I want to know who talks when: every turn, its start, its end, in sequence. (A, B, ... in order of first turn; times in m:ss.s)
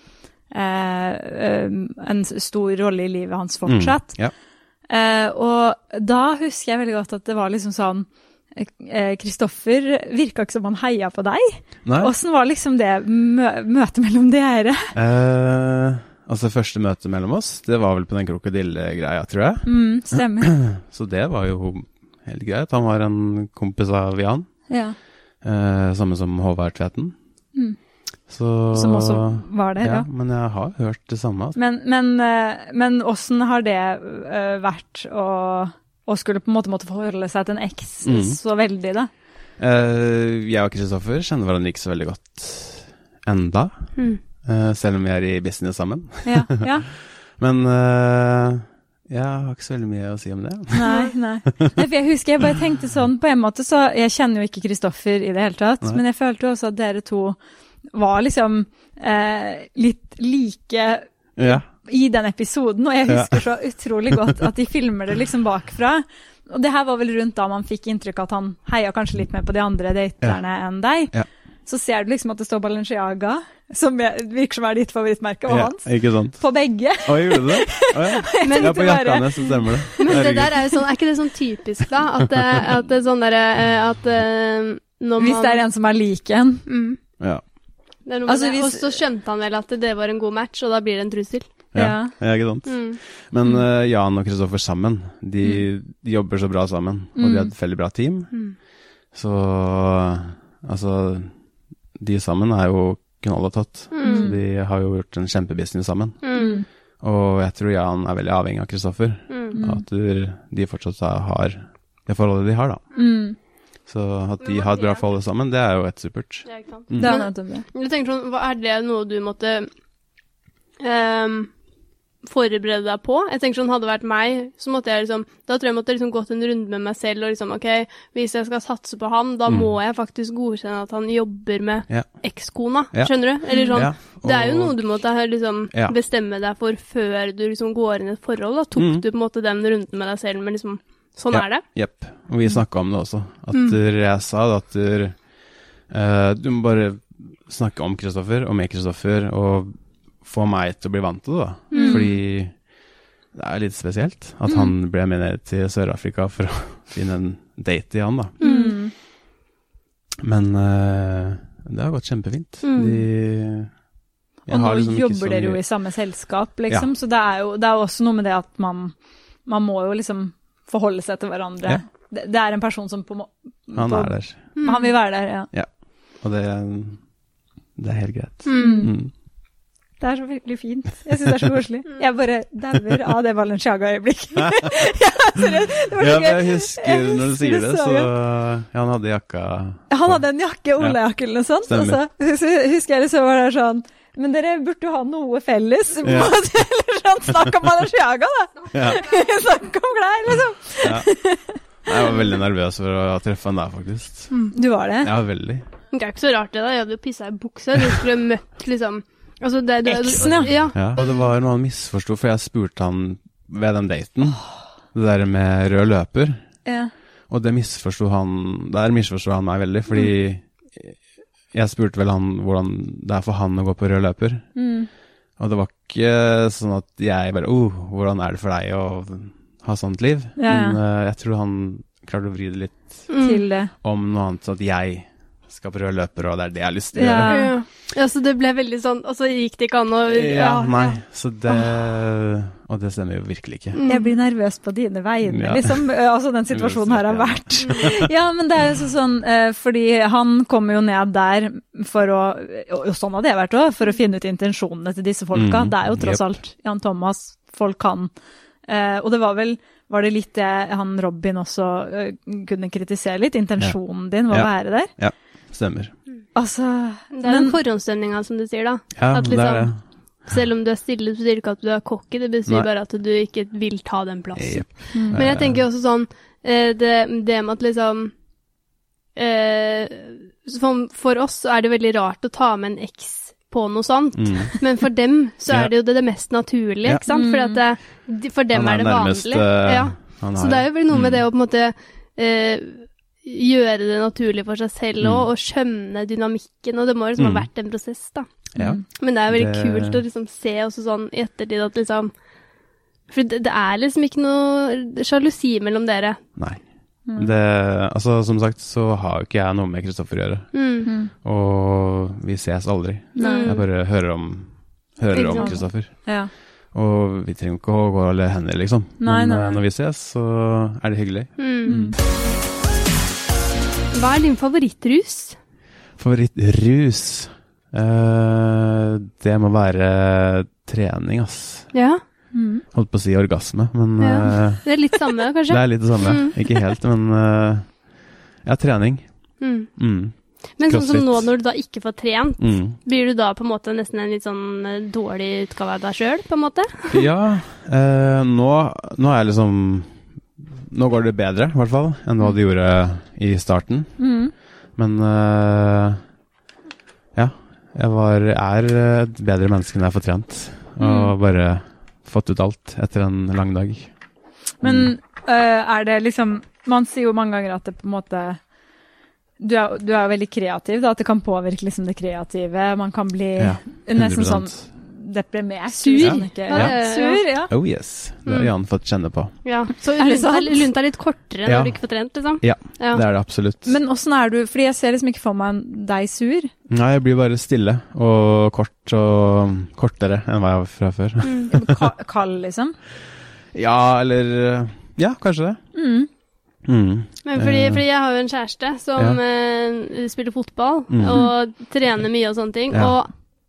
0:00.5-0:04.2 A
0:03.7-0:04.3 B
0:04.9-0:15.0 A
0:11.8-0:12.1 B
0:14.9-0:24.6 B
0:19.6-0:20.5 A
0:24.7-0:25.0 A
0:25.4-0:27.1 B
0:28.3-0:31.6 B
0:28.7-0:30.1 A
0:31.6-0:39.1 A
0:38.0-0:38.4 B
0:39.6-0:50.9 B
0:44.0-0:44.2 C
0:46.2-0:46.9 A
0:50.7-0:57.4 A
0:50.9-0:51.1 C
0:57.9-1:11.1 A
1:01.4-1:01.6 B
1:03.1-1:03.4 B
1:11.7-1:20.8 A
1:15.5-1:16.4 B
1:17.0-1:20.6 B
1:18.4-1:19.1 C
1:20.0-1:25.6 C
1:25.2-1:26.7 A
1:26.7-1:27.0 C
1:28.1-1:31.5 C
1:28.3-1:29.0 A
1:31.7-1:38.3 B
1:31.7-1:32.2 A
1:32.6-1:33.0 C
1:37.2-1:37.5 A
1:39.1-1:41.3 B
1:42.0-1:46.3 B
1:43.9-1:44.3 C
1:44.0-1:44.4 A
1:46.2-1:46.6 C
1:46.3-1:46.7 A
1:47.0-1:52.8 B
1:49.3-1:49.6 C
1:49.5-1:49.8 A
1:53.0-1:53.4 A
1:53.9-1:57.2 B
1:54.4-1:55.0 C
1:56.4-1:59.7 C
1:57.0-1:57.6 A
2:00.8-2:01.5 C
2:02.2-2:21.6 C
2:09.5-2:09.7 B
2:11.9-2:12.2 B
2:12.9-2:14.8 B
2:13.5-2:13.9 A
2:18.8-2:19.0 B
2:21.3-2:25.2 B
2:23.5-2:23.8 C
2:25.9-2:32.6 B
2:31.7-2:32.1 C
2:31.7-2:32.1 A
2:33.3-2:38.4 B
2:38.4-2:38.8 C
2:38.4-2:38.9 A
2:40.2-2:43.7 B
2:42.6-2:43.0 C
2:44.4-2:45.6 B
2:44.5-2:49.0 A
2:49.4-2:55.5 A
2:53.7-2:54.4 B
2:54.6-2:54.9 C
2:56.2-2:57.0 B
2:57.8-2:59.1 B
2:58.4-2:58.9 C
2:58.6-2:58.9 A
3:00.0-3:08.1 A
3:06.0-3:10.2 B
3:09.9-3:22.2 A
3:11.7-3:12.0 B
3:16.0-3:16.4 B
3:18.7-3:19.0 B
3:20.8-3:21.1 B
3:21.8-3:24.4 B
3:24.3-3:24.6 C
3:24.5-3:25.1 A
3:25.0-3:25.6 B
3:25.9-3:31.1 C
3:29.8-3:30.7 A
3:30.7-3:34.4 B
3:34.9-3:36.4 B
3:36.6-3:36.9 A
3:37.3-3:41.0 B
3:41.5-3:44.5 B
3:44.6-3:44.9 A
3:45.4-3:53.1 B
3:50.4-3:50.8 A
3:53.1-3:53.4 C
3:53.2-3:53.7 A
3:53.8-3:57.4 B
3:56.9-3:57.6 A
3:57.2-4:00.9 C
4:00.1-4:03.8 B
4:03.7-4:04.1 C
4:03.9-4:18.1 A
4:05.3-4:05.9 B
4:06.5-4:08.1 B
4:15.3-4:16.2 B
4:18.7-4:24.9 A
4:24.3-4:25.9 B
4:26.4-4:27.6 A
4:27.1-4:29.7 C
4:29.0-4:29.8 B
4:30.2-4:38.1 C
4:34.4-4:35.6 B
4:34.9-4:35.3 A
4:39.2-4:58.3 C
4:44.2-4:44.6 B
4:45.5-4:45.7 B
4:47.1-4:47.6 A
4:48.5-4:51.2 B
4:55.0-4:55.3 B
4:57.2-4:57.5 B
4:58.6-5:00.0 B
4:58.6-4:58.8 A
4:59.0-5:02.1 C
5:03.1-5:06.2 C
5:06.4-5:06.6 B
5:07.1-5:07.3 A
5:07.1-5:16.1 B
5:10.5-5:10.9 C
5:10.8-5:11.1 A
5:13.2-5:13.6 A
5:13.2-5:13.6 C
5:15.1-5:15.6 C
5:15.3-5:16.3 A
5:16.7-5:22.0 B
5:19.0-5:19.6 A
5:21.4-5:21.7 C
5:21.6-5:22.0 A
5:23.9-5:25.4 C
5:26.0-5:31.7 B
5:31.7-5:32.0 C
5:32.3-5:32.6 A
5:32.7-5:34.8 B
5:34.0-5:36.6 C
5:35.5-5:37.8 B
5:38.4-5:39.1 B
5:39.4-5:39.7 C
5:39.8-5:41.3 B
5:40.6-5:47.1 C
5:42.4-5:42.8 B
5:46.9-5:50.0 B
5:50.7-5:54.1 B
5:54.0-5:54.3 A
5:54.8-5:56.0 B
5:57.1-6:03.9 B
6:00.8-6:01.1 A
6:04.6-6:08.4 A
6:04.6-6:04.9 B
6:09.4-6:17.5 A
6:13.4-6:14.6 B
6:15.8-6:17.3 C
6:16.0-6:16.8 B
6:17.5-6:19.4 B
6:19.4-6:23.0 C
6:20.0-6:20.7 A
6:21.4-6:21.8 B
6:22.4-6:23.8 B
6:23.7-6:26.5 A
6:26.7-6:31.8 B
6:31.2-6:31.5 C
6:31.5-6:32.8 A
6:33.5-6:35.6 B
6:35.7-6:36.1 A
6:36.6-6:37.8 B
6:37.2-6:43.1 C
6:40.9-6:41.3 B
6:42.7-6:43.0 B